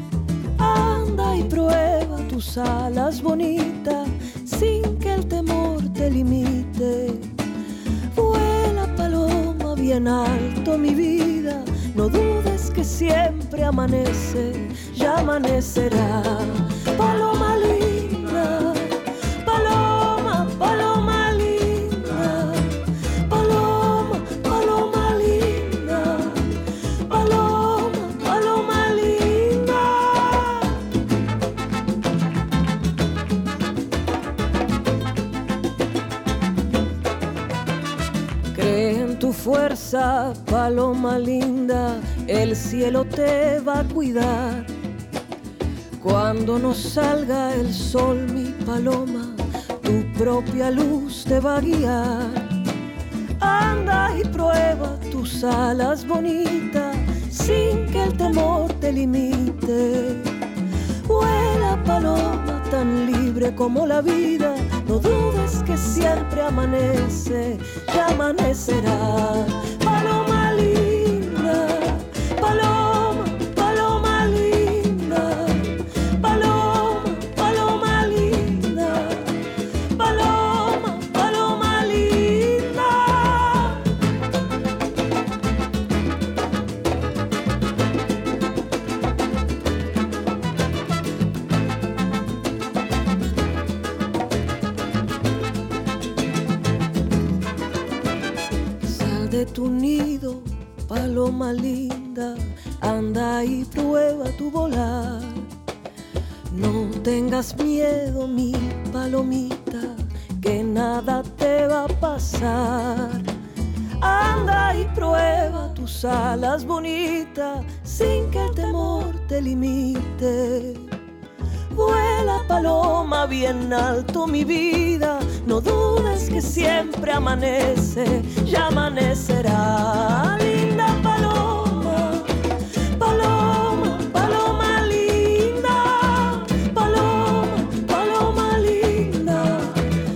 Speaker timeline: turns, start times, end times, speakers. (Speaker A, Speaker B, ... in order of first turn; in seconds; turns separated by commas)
Speaker A: 0.6-7.3, Speaker A: 8.1-30.8, Speaker A: 38.5-44.7, Speaker A: 46.0-52.5, Speaker A: 53.4-60.3, Speaker A: 61.1-79.4, Speaker A: 80.0-83.9, Speaker A: 98.8-105.5, Speaker A: 106.5-113.3, Speaker A: 114.0-120.9, Speaker A: 121.7-132.3, Speaker A: 133.0-139.9